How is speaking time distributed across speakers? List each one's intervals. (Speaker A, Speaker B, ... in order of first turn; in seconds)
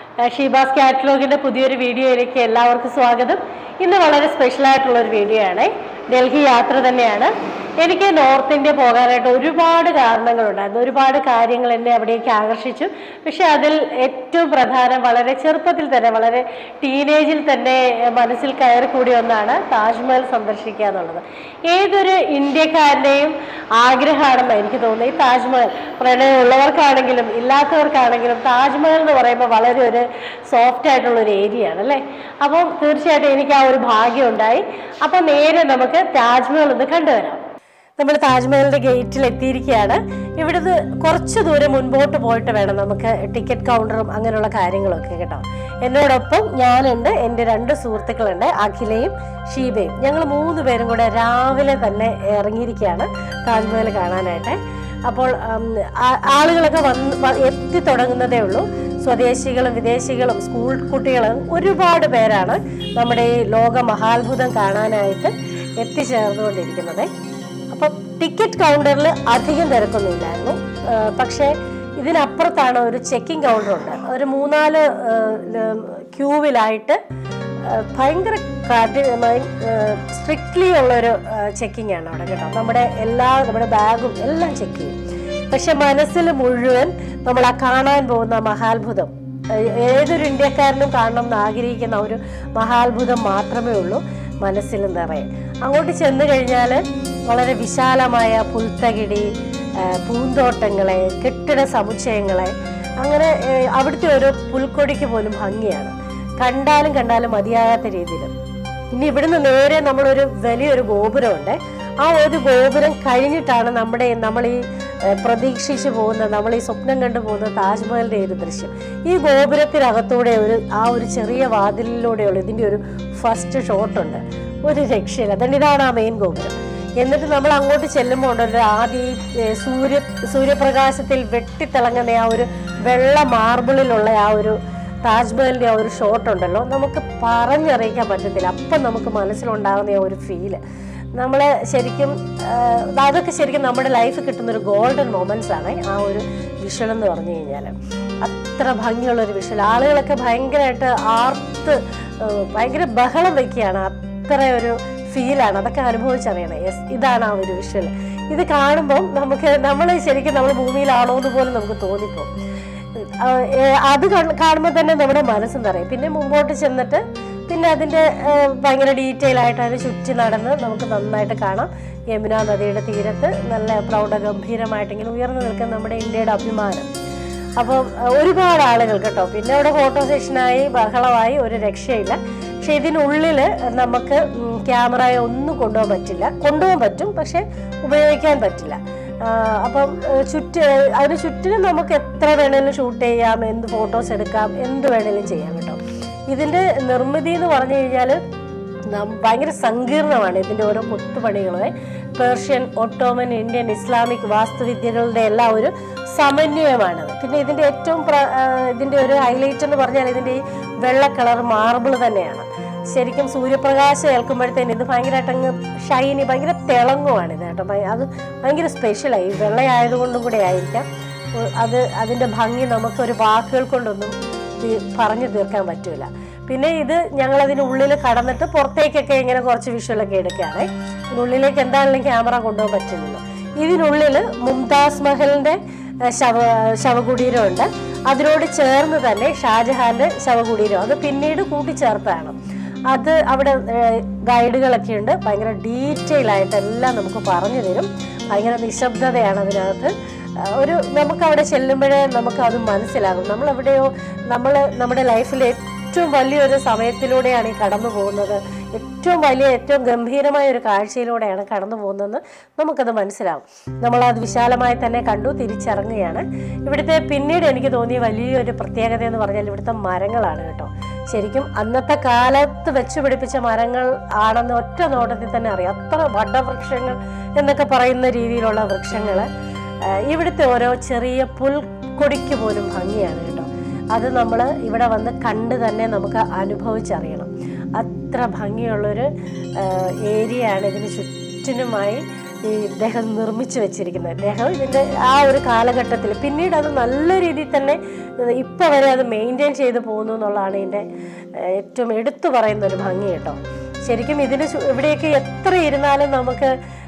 Speaker A: 0.2-37.4, 38.0-67.1, 67.7-77.0, 77.6-85.0, 85.5-108.3, 108.9-140.6, 141.2-162.3, 163.0-176.9, 177.6-195.8, 196.3-198.2, 198.9-220.8, 221.4-242.3, 242.9-279.3, 279.9-300.8, 301.4-306.5